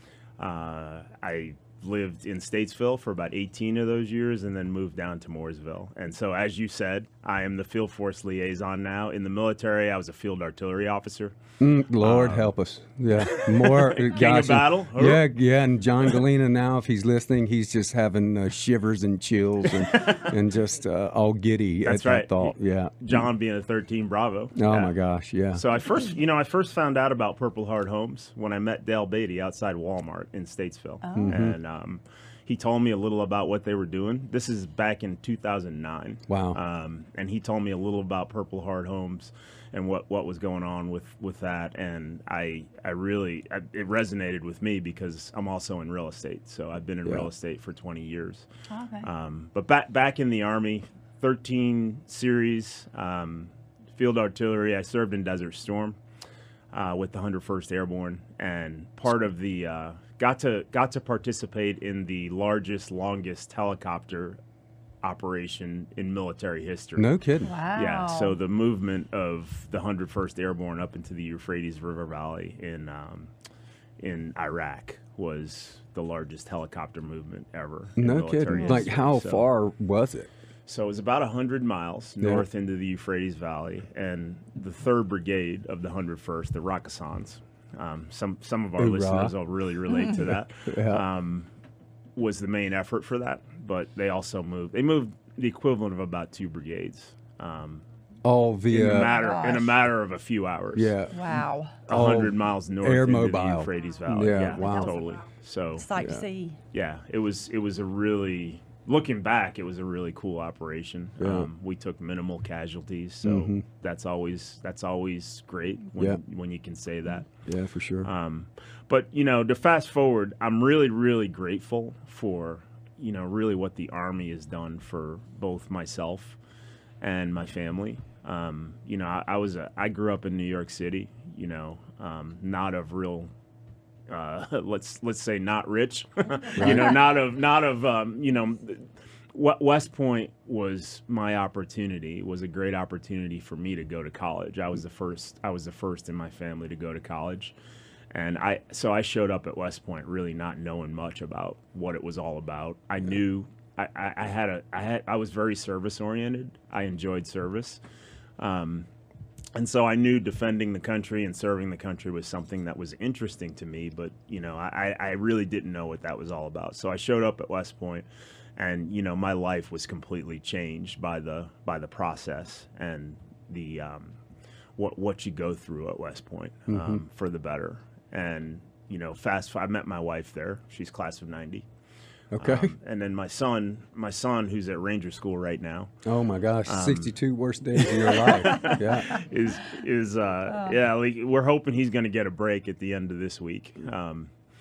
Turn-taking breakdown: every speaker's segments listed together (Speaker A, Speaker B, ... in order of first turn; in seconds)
Speaker A: 0.4-11.4, 12.0-12.5, 13.2-15.2, 19.7-20.3, 21.8-24.9, 25.5-48.5, 49.0-56.0, 56.7-64.4, 65.0-67.1, 67.7-73.3, 74.0-79.5, 80.7-91.5, 92.2-97.8, 98.7-101.0, 101.9-105.9, 106.7-117.3, 118.0-126.4, 127.0-133.3, 134.1-147.5, 148.1-157.8, 158.4-158.9, 159.5-174.2, 174.8-181.6, 182.4-185.9, 186.7-187.1, 187.8-194.3
Speaker B: 11.6-23.3, 24.6-25.6, 31.1-31.6, 36.3-36.6, 67.0-67.5, 78.0-80.3, 88.8-89.3, 90.0-91.0, 98.2-99.2, 100.7-104.9, 106.0-106.2, 111.2-111.5, 113.2-113.6, 117.5-118.1, 136.6-136.9, 176.7-177.0, 182.3-182.7, 186.0-189.2
Speaker C: 31.0-31.3, 48.7-49.1, 67.4-68.3, 78.5-78.8, 98.8-99.7, 101.1-101.8, 104.6-104.9, 105.8-106.6, 190.5-190.7